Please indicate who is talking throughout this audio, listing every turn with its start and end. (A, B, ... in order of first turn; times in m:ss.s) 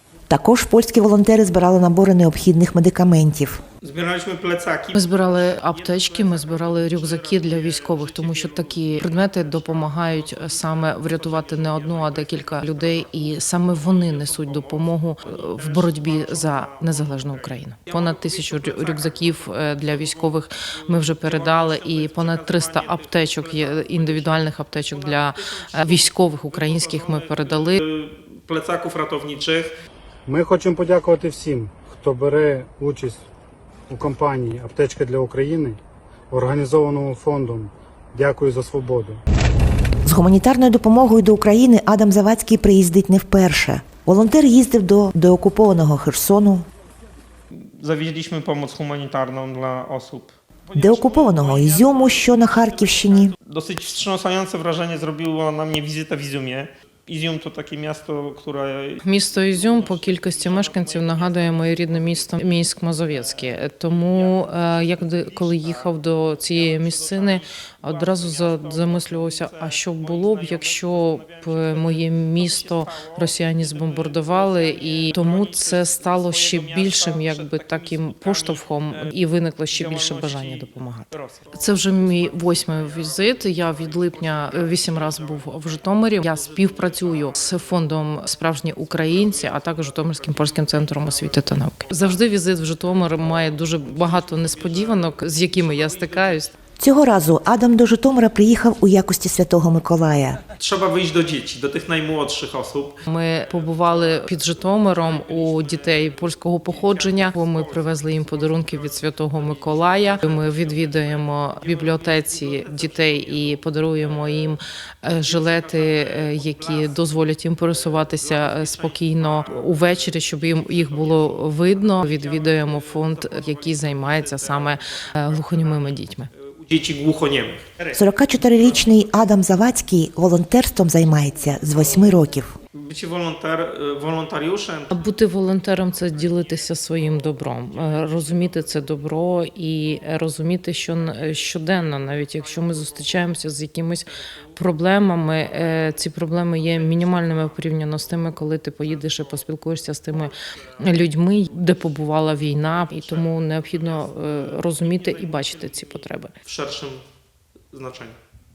0:00.3-0:03.6 A
0:03.8-0:05.0 B
0:04.9-0:27.8 C
0:05.6-0:12.8 B
0:13.7-0:20.3 B
0:20.8-0:29.7 B
0:30.3-0:33.2 D
0:33.9-0:35.8 D
0:36.3-0:39.2 D
0:40.0-0:46.6 A
0:47.5-0:52.4 B
0:50.7-0:53.3 A
0:53.1-0:59.0 B
0:59.0-1:36.5 C
0:59.6-1:01.9 B
1:04.2-1:05.8 B
1:06.6-1:19.1 B
1:19.7-1:21.6 B
1:22.4-1:25.6 B
1:26.3-1:27.6 B
1:29.5-1:31.3 B
1:33.4-1:36.4 B
1:36.8-1:40.4 A
1:40.6-1:43.0 B
1:43.0-2:06.3 C
1:43.7-1:44.3 B
1:44.9-1:53.3 B
1:55.3-1:56.9 B
1:57.9-1:59.8 B
2:00.7-2:05.8 B
2:06.4-2:07.9 B
2:07.9-2:12.5 A
2:12.7-2:14.9 B
2:14.9-2:36.3 C
2:33.1-2:35.8 B
2:36.4-2:37.0 B
2:37.7-2:38.2 B